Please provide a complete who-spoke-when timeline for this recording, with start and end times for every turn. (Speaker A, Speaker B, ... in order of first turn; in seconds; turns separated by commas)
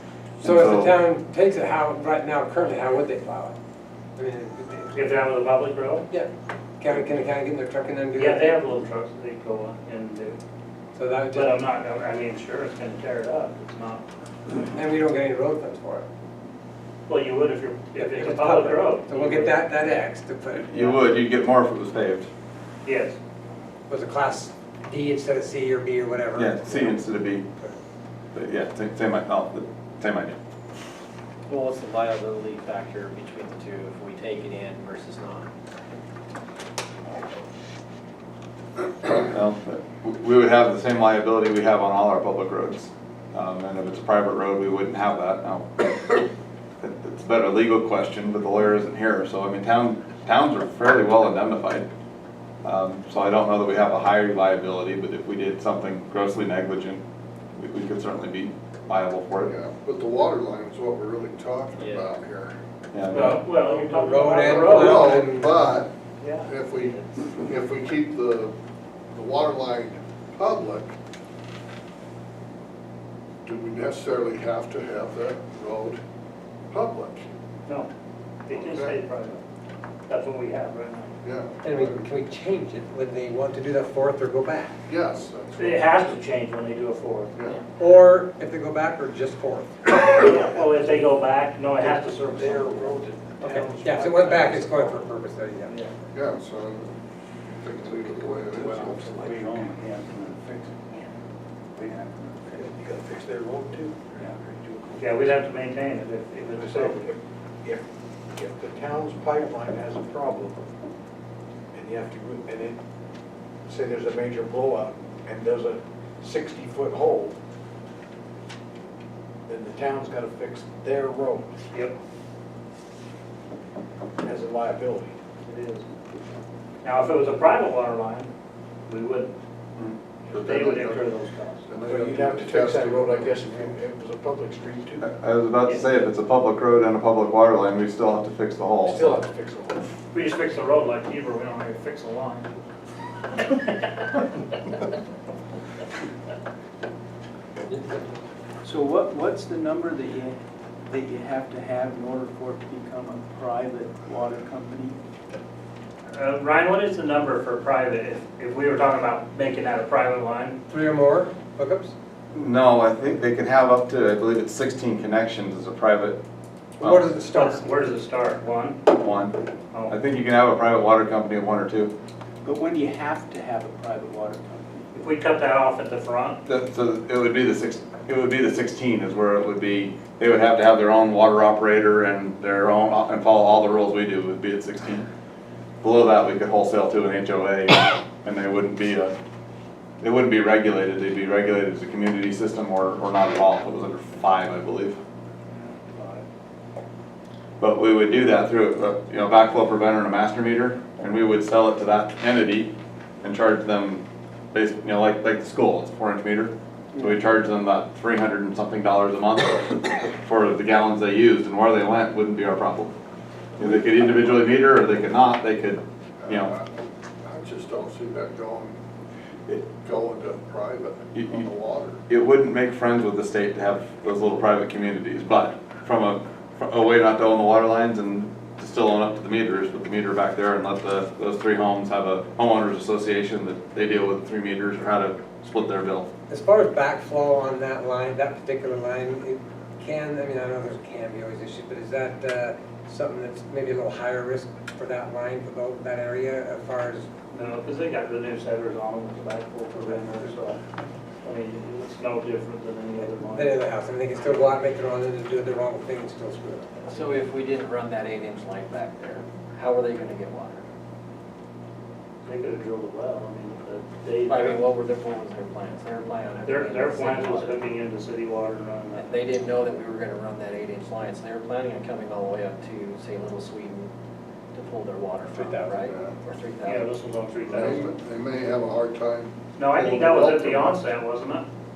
Speaker A: 0.4-0.9, Speaker B: 0.4-3.5, Speaker B: 4.2-4.9, Speaker C: 4.9-6.0, Speaker B: 6.1-8.6, Speaker C: 8.2-10.4, Speaker B: 10.9-11.6, Speaker C: 11.3-14.0, Speaker B: 14.5-16.0, Speaker C: 17.1-19.6, Speaker B: 18.0-21.0, Speaker A: 20.6-22.3, Speaker C: 22.8-23.2, Speaker B: 23.9-27.0, Speaker A: 26.4-27.4, Speaker A: 28.3-30.4, Speaker D: 31.5-35.5, Speaker A: 39.1-45.8, Speaker A: 46.8-51.9, Speaker A: 52.6-57.0, Speaker A: 57.5-59.5, Speaker E: 59.5-62.5, Speaker A: 62.9-63.4, Speaker C: 63.1-65.2, Speaker B: 63.1-65.6, Speaker E: 64.5-65.9, Speaker C: 66.2-67.1, Speaker E: 66.4-68.5, Speaker E: 69.1-70.9, Speaker E: 73.4-76.0, Speaker E: 76.7-77.3, Speaker C: 78.5-79.4, Speaker E: 78.5-79.0, Speaker C: 80.1-81.2, Speaker E: 81.2-82.0, Speaker B: 81.6-84.8, Speaker E: 84.9-86.0, Speaker C: 85.6-87.3, Speaker B: 87.8-90.1, Speaker C: 90.2-93.5, Speaker F: 91.8-95.0, Speaker B: 93.4-95.8, Speaker E: 96.1-96.9, Speaker E: 97.6-99.2, Speaker F: 98.2-99.3, Speaker G: 98.5-101.1, Speaker G: 101.8-102.6, Speaker F: 102.5-105.0, Speaker C: 105.0-107.1, Speaker F: 106.5-107.8, Speaker F: 108.3-110.6, Speaker F: 111.7-112.8, Speaker F: 113.7-117.4, Speaker F: 119.5-121.5, Speaker F: 124.2-125.2, Speaker C: 125.5-125.9, Speaker C: 126.8-128.3, Speaker C: 128.9-129.3, Speaker C: 130.3-131.6, Speaker E: 130.3-131.1, Speaker E: 131.7-133.5, Speaker F: 131.8-135.1, Speaker A: 135.0-139.2, Speaker F: 138.8-139.8, Speaker C: 140.1-142.5, Speaker C: 143.4-144.2, Speaker G: 148.6-150.4, Speaker G: 150.9-155.0, Speaker C: 156.1-160.6, Speaker B: 160.7-161.9, Speaker A: 162.3-166.2, Speaker A: 166.8-167.1, Speaker B: 166.8-167.7, Speaker C: 167.3-168.8, Speaker A: 169.0-169.3, Speaker A: 169.9-171.9, Speaker G: 172.4-174.9, Speaker C: 174.9-176.4, Speaker A: 176.4-185.1, Speaker A: 185.8-189.1, Speaker A: 190.0-195.0, Speaker A: 197.6-202.7, Speaker A: 203.2-212.9, Speaker A: 213.6-216.5, Speaker E: 216.2-218.8, Speaker E: 219.8-222.0, Speaker A: 221.1-221.4, Speaker A: 222.1-236.1, Speaker B: 236.3-247.1, Speaker C: 247.3-250.6, Speaker C: 251.2-253.6, Speaker B: 253.3-256.9, Speaker D: 256.9-260.6, Speaker C: 262.2-264.6, Speaker D: 264.3-267.5, Speaker C: 266.4-269.2, Speaker D: 268.9-273.9, Speaker D: 274.5-276.9, Speaker E: 275.8-276.2, Speaker C: 276.6-277.9, Speaker E: 277.4-280.8, Speaker C: 279.6-281.4